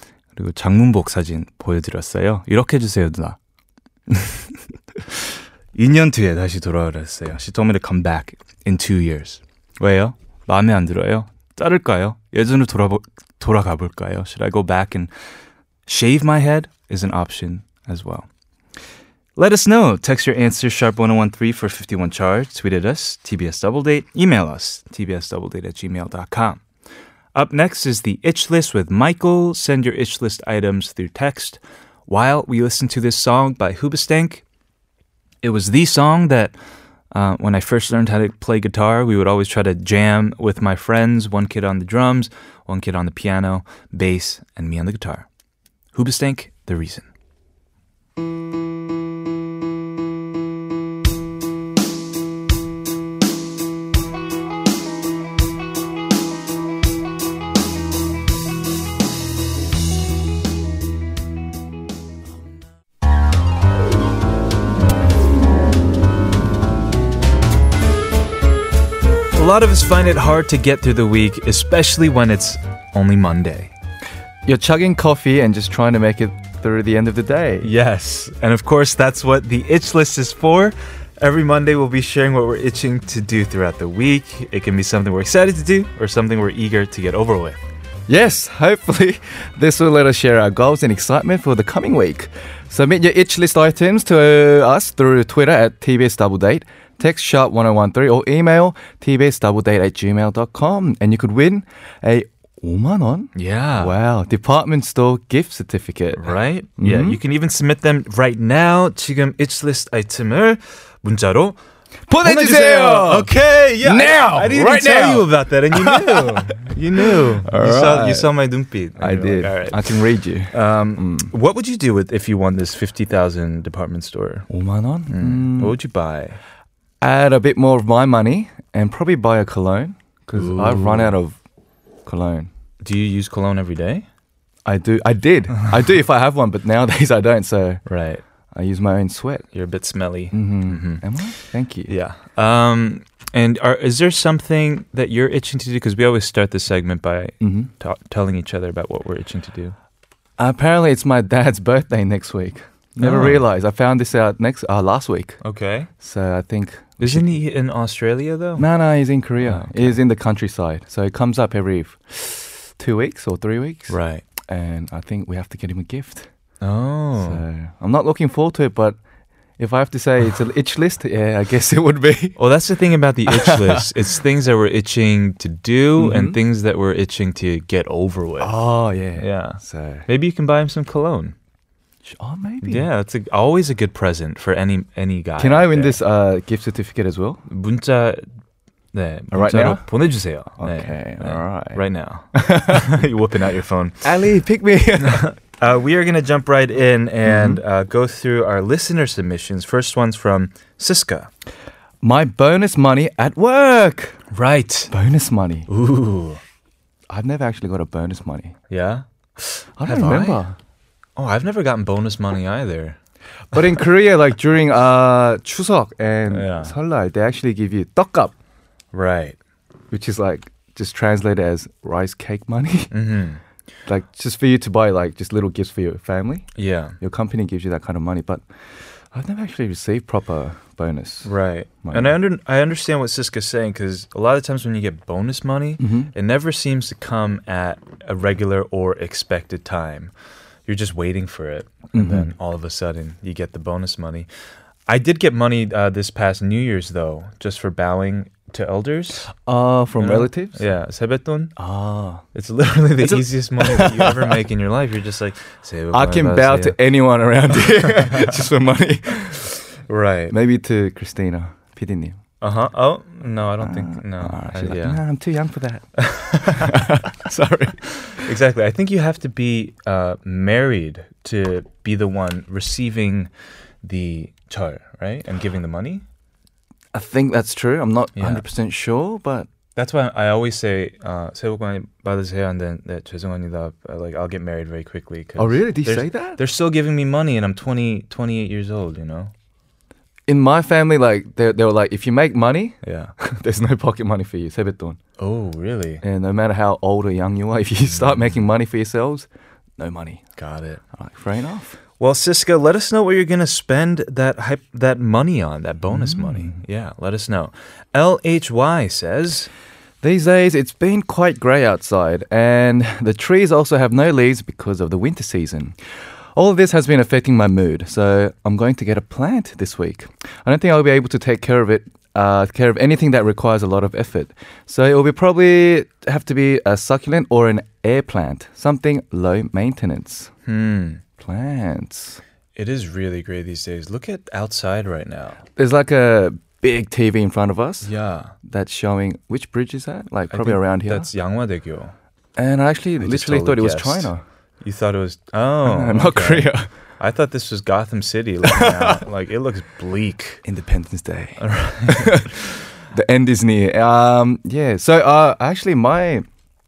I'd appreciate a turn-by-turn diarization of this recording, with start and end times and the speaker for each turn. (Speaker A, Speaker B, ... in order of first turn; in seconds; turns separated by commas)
Speaker A: 0.3-3.4, Speaker A: 4.1-4.4, Speaker A: 5.7-15.1, Speaker A: 15.8-18.3, Speaker A: 19.4-26.6, Speaker A: 27.3-34.4, Speaker A: 35.4-36.5, Speaker A: 37.1-45.2, Speaker A: 45.9-47.1, Speaker A: 69.3-73.7, Speaker B: 74.4-77.7, Speaker A: 77.6-87.6, Speaker B: 88.1-107.2, Speaker A: 103.3-103.9, Speaker A: 106.1-111.6, Speaker B: 112.1-118.3, Speaker A: 112.2-124.5, Speaker B: 119.0-121.3, Speaker B: 124.5-125.8, Speaker A: 125.1-126.4, Speaker B: 127.0-131.4, Speaker A: 130.3-131.2, Speaker B: 132.0-132.5, Speaker A: 132.8-134.1, Speaker B: 134.6-138.0, Speaker A: 137.8-138.2, Speaker B: 138.5-139.6, Speaker A: 139.5-141.1, Speaker B: 140.3-141.9, Speaker A: 141.8-149.7, Speaker B: 147.4-147.7, Speaker B: 150.4-157.4, Speaker A: 153.0-153.4, Speaker A: 155.4-155.9, Speaker A: 157.0-158.7, Speaker B: 158.6-166.6, Speaker A: 159.4-160.0, Speaker A: 163.9-164.2, Speaker A: 166.6-167.4, Speaker B: 167.2-169.0, Speaker B: 169.6-172.4, Speaker A: 172.4-178.5, Speaker B: 173.3-173.8, Speaker B: 176.0-176.4, Speaker B: 178.4-180.1, Speaker A: 179.1-181.3, Speaker B: 182.0-182.9, Speaker A: 182.6-186.0, Speaker B: 185.4-187.4, Speaker A: 187.4-188.2, Speaker A: 188.9-194.1, Speaker B: 189.3-192.9, Speaker B: 194.0-195.3, Speaker A: 195.0-201.3, Speaker B: 197.2-197.6, Speaker B: 202.0-204.2, Speaker A: 204.3-204.9, Speaker B: 204.9-205.7, Speaker A: 205.7-206.4, Speaker B: 207.1-208.6, Speaker A: 208.7-210.4, Speaker B: 209.8-210.6, Speaker A: 211.2-213.0, Speaker B: 213.5-218.3, Speaker A: 216.3-216.7, Speaker A: 218.9-219.4, Speaker B: 219.9-223.1, Speaker A: 222.9-223.4, Speaker B: 223.8-232.2, Speaker A: 226.6-227.0, Speaker A: 231.2-240.1, Speaker B: 235.8-236.1, Speaker A: 240.6-244.3, Speaker B: 241.9-242.3, Speaker A: 244.9-249.3, Speaker B: 249.4-250.6, Speaker A: 250.0-251.7, Speaker B: 251.6-252.3, Speaker A: 252.3-256.8, Speaker B: 253.0-254.4, Speaker B: 255.9-259.6, Speaker A: 259.9-260.3, Speaker B: 260.3-262.2, Speaker A: 262.4-265.0, Speaker B: 263.6-268.2, Speaker A: 266.2-266.5, Speaker A: 268.2-273.3, Speaker A: 273.8-276.0, Speaker B: 276.9-279.5, Speaker A: 278.1-278.4, Speaker A: 279.8-289.3, Speaker B: 285.4-286.4, Speaker B: 290.3-295.0, Speaker A: 292.8-293.1, Speaker A: 295.2-296.0, Speaker B: 296.0-301.8, Speaker A: 297.9-298.4, Speaker A: 300.4-300.8, Speaker A: 302.0-309.5, Speaker B: 305.9-306.6, Speaker B: 310.0-330.4, Speaker A: 330.4-331.0, Speaker B: 331.2-332.2, Speaker A: 332.5-335.4, Speaker B: 335.6-341.1, Speaker A: 337.8-338.3, Speaker A: 340.3-341.9, Speaker B: 342.3-344.2, Speaker A: 343.0-350.4, Speaker B: 345.6-346.7, Speaker B: 348.5-349.0, Speaker B: 350.4-356.3, Speaker A: 351.4-352.4